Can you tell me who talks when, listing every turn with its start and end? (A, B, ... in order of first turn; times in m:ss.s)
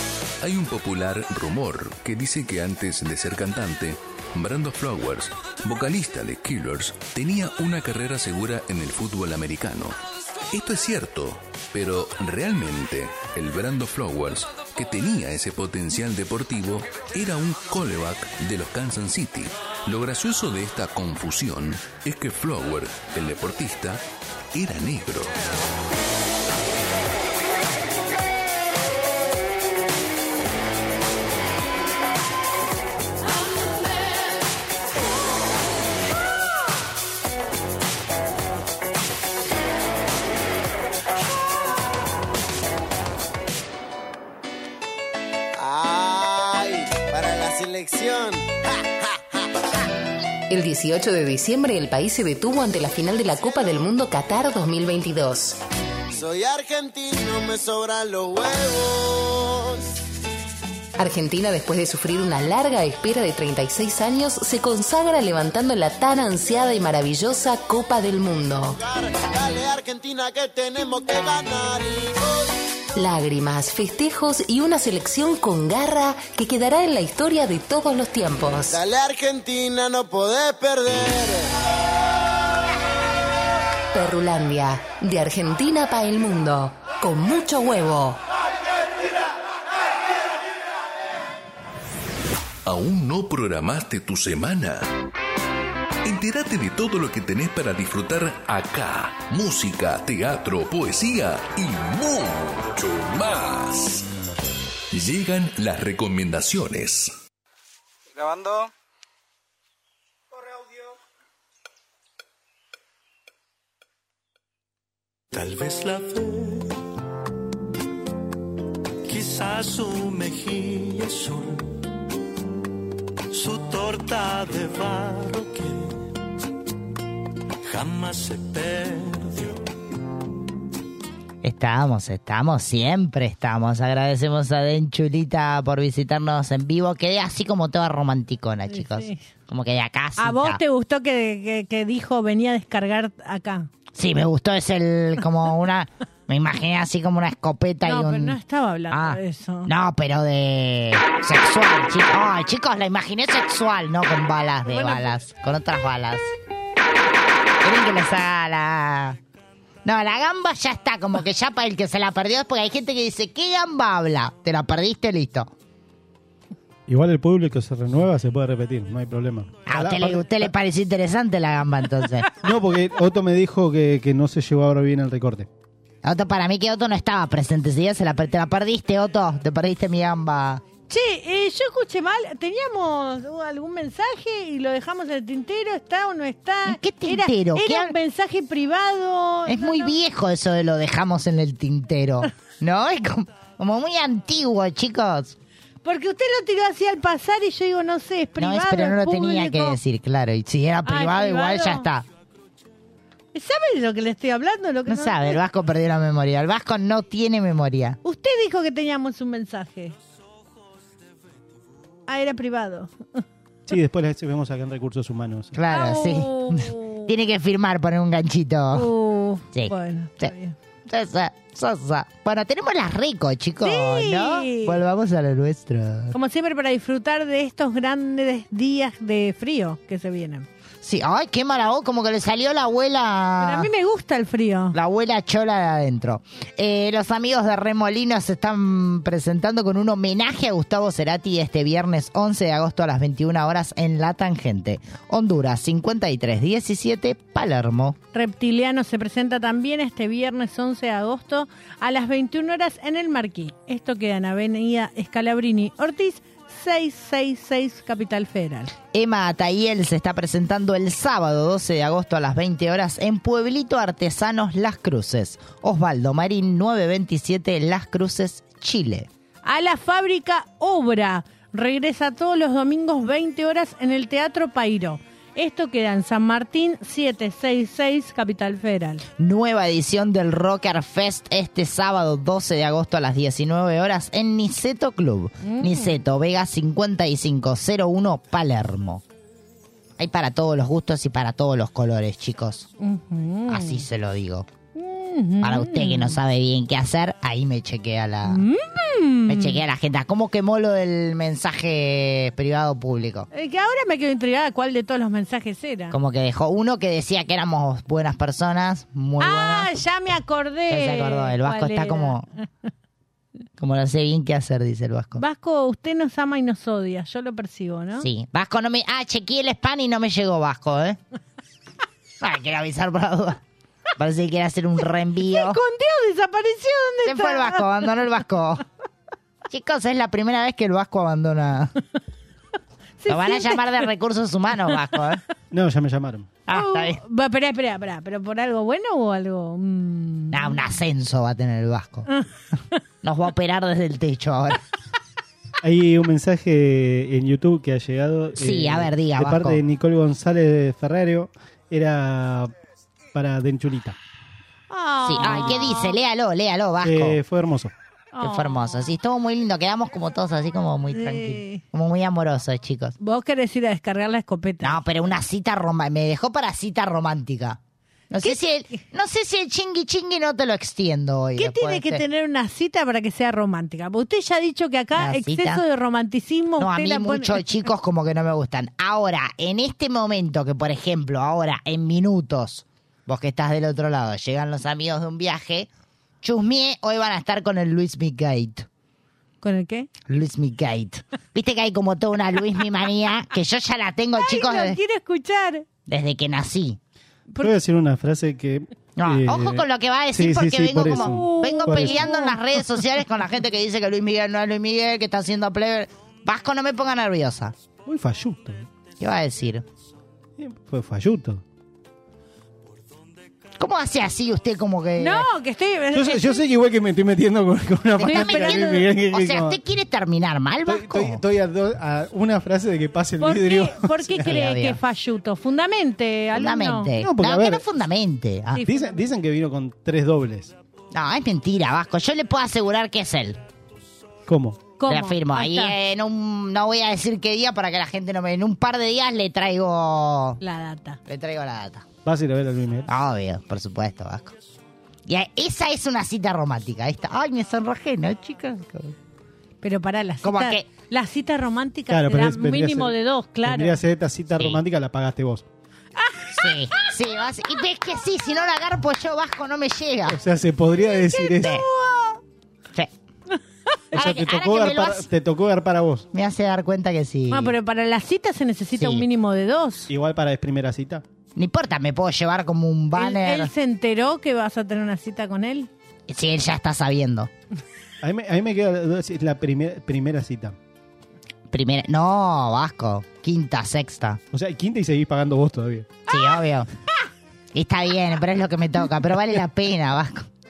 0:00.4-0:10.0 A
0:10.5-0:25.4 A
0:45.6-0:49.0 B
0:50.5-0:55.6 C
0:56.1-1:00.0 B
1:01.0-1:08.8 C
1:08.7-1:12.5 B
1:13.0-1:18.8 C
1:18.7-1:21.5 B
1:23.9-1:28.2 C
1:32.6-1:34.9 A
1:36.0-1:44.1 A
1:44.9-1:47.1 A
1:55.3-1:56.7 D
1:59.0-2:01.7 D
2:03.3-2:05.9 D
2:07.7-2:09.6 D
2:11.4-2:20.6 E
2:18.7-2:19.3 F
2:20.2-2:23.7 F
2:23.9-2:28.4 E
2:27.8-2:29.7 F
2:28.9-2:36.3 E
2:34.7-2:35.1 F
2:37.6-2:39.2 E
2:39.8-2:45.5 E
2:46.9-2:50.5 G
2:49.7-2:52.3 E
2:52.4-2:55.5 G
2:56.0-3:00.6 E
3:00.9-3:10.0 F
3:06.6-3:08.0 E
3:09.5-3:15.4 E
3:15.8-3:19.8 F
3:18.4-3:22.1 E
3:20.8-3:21.9 F
3:23.3-3:25.4 F
3:24.9-3:28.0 E
3:28.0-3:30.0 F
3:32.1-3:33.2 F
3:33.7-3:35.6 G
3:35.5-3:38.9 E
3:35.7-3:37.1 F
3:38.7-3:40.6 F
3:39.5-3:40.3 E
3:40.9-3:46.2 E
3:43.6-3:44.8 F
3:46.1-3:50.5 F
3:50.8-3:53.7 E
3:53.4-3:54.8 F
3:54.7-4:08.0 E
4:08.1-4:18.7 F
4:18.9-4:29.1 E
4:29.4-4:39.1 F
4:39.2-4:49.0 E
4:45.4-4:46.0 F
4:50.0-4:52.7 E
4:52.8-4:53.8 F
4:53.5-4:54.5 E
4:54.8-4:56.2 F
4:55.4-4:58.4 E
4:58.2-4:59.6 F
4:59.3-5:03.3 E
5:03.3-5:06.0 F
5:05.9-5:09.8 E
5:09.2-5:12.5 F
5:10.7-5:12.3 E
5:13.6-5:15.2 E
5:15.2-5:18.1 F
5:18.0-5:21.0 E
5:22.2-5:23.4 E
5:24.0-5:25.6 E
5:25.2-5:27.8 F
5:27.0-5:28.6 E
5:29.5-5:31.8 E
5:33.0-5:33.9 F
5:33.1-5:35.2 E
5:35.5-5:36.3 G
5:36.5-5:37.0 E
5:36.5-5:40.6 F
5:40.3-5:42.1 E
5:43.0-5:44.6 E
5:45.6-5:52.5 G
5:48.4-5:49.6 E
5:53.1-5:54.0 G
5:54.7-5:56.0 F
5:55.0-5:57.2 E
5:56.8-5:57.7 G
5:58.1-5:58.9 F
5:58.2-6:03.0 E
6:00.9-6:01.6 F
6:03.0-6:04.8 F
6:04.6-6:12.0 E
6:11.4-6:17.5 F
6:15.0-6:15.6 E
6:16.6-6:25.7 E
6:26.2-6:28.7 E
6:29.4-6:29.9 F
6:30.1-6:34.8 E
6:34.2-6:35.6 F
6:35.9-6:36.8 E
6:37.4-6:42.1 G
6:39.0-6:47.6 E
6:40.9-6:42.4 F
6:47.9-6:48.7 G
6:49.0-6:49.6 E
6:50.4-6:51.4 G
6:53.6-6:55.3 E
6:55.0-6:56.4 F
6:55.9-6:59.6 G
6:58.0-7:01.2 E
6:58.0-6:58.9 F
7:00.7-7:04.3 G
7:03.2-7:06.9 F
7:04.1-7:04.8 E
7:06.3-7:08.7 E
7:07.0-7:07.6 G
7:08.5-7:09.0 F
7:08.6-7:10.6 G
7:10.9-7:13.4 E
7:14.3-7:14.6 G
7:14.8-7:15.8 F
7:14.9-7:20.4 E
7:20.4-7:21.0 F
7:21.1-7:21.9 E
7:22.0-7:22.9 G
7:22.9-7:24.4 E
7:25.1-7:29.0 E
7:29.6-7:33.8 F
7:30.2-7:30.7 E
7:31.9-7:35.5 G
7:36.0-7:36.9 F
7:36.3-7:40.2 E
7:40.1-7:41.6 G
7:40.8-7:42.2 F
7:41.4-7:41.6 E
7:43.9-7:45.1 E
7:43.9-7:46.1 G
7:46.1-7:47.5 E
7:47.3-7:49.9 F
7:48.8-7:49.1 E
7:49.9-7:51.0 G
7:51.4-7:53.5 E
7:53.0-7:55.7 F
7:56.1-7:57.3 E
7:58.0-8:00.6 G
8:01.5-8:04.2 E
8:04.3-8:05.9 G
8:06.1-8:06.7 E
8:07.5-8:10.3 E